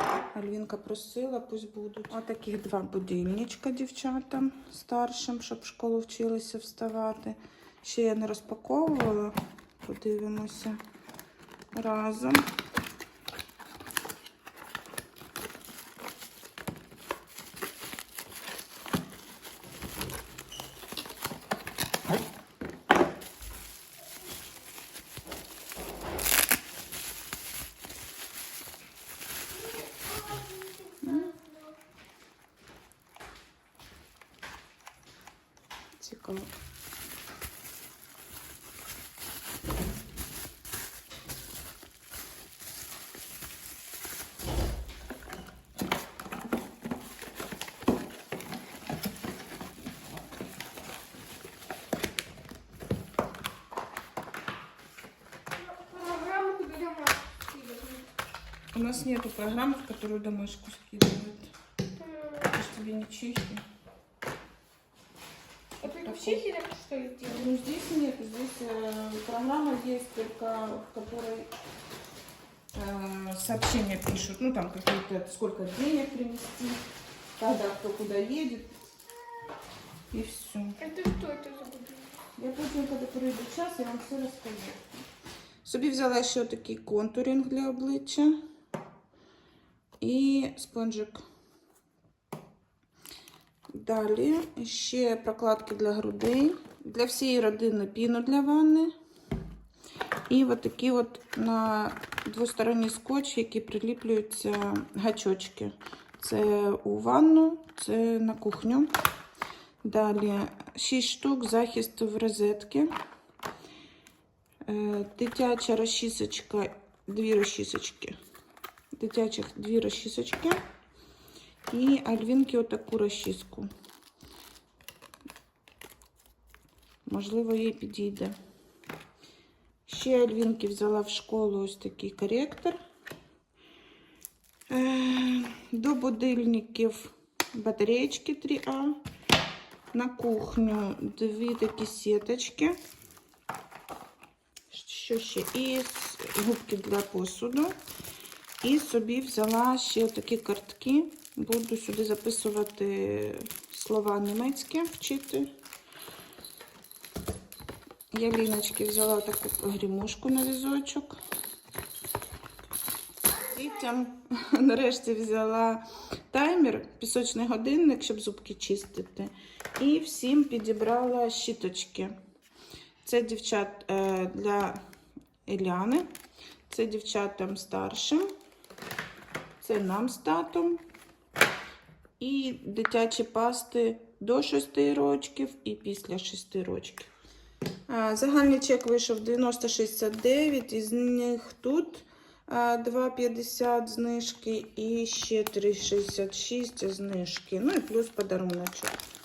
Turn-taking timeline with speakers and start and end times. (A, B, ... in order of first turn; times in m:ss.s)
0:00.3-0:10.8 A
0:11.7-0:12.5 A
0:29.8-0:31.6 B
0:31.0-0:31.3 A
0:36.0-0:36.5 A
0:55.6-0:58.0 B
0:58.7-1:01.5 A
1:02.4-1:03.6 A
1:05.8-1:06.5 A
1:05.8-1:07.3 B
1:07.2-1:11.5 A
1:12.7-1:16.8 A
1:17.4-1:18.7 A
1:20.1-1:20.8 A
1:20.8-1:22.2 B
1:22.4-1:25.1 A
1:25.6-1:28.4 A
1:30.0-1:31.2 A
1:33.7-1:38.9 A
1:40.3-1:48.9 A
1:49.8-1:53.0 A
1:54.7-1:58.2 A
1:59.0-2:00.6 A
2:01.7-2:03.7 A
2:07.1-2:08.4 A
2:09.9-2:12.8 A
2:14.7-2:19.0 A
2:19.9-2:22.8 A
2:24.7-2:27.8 A
2:28.6-2:35.5 A
2:38.1-2:41.2 A
2:43.4-2:52.2 A
2:53.0-2:54.8 A
2:55.5-2:56.1 A
2:56.7-2:58.3 A
2:59.6-3:00.8 A
3:02.2-3:07.1 A
3:07.9-3:19.0 A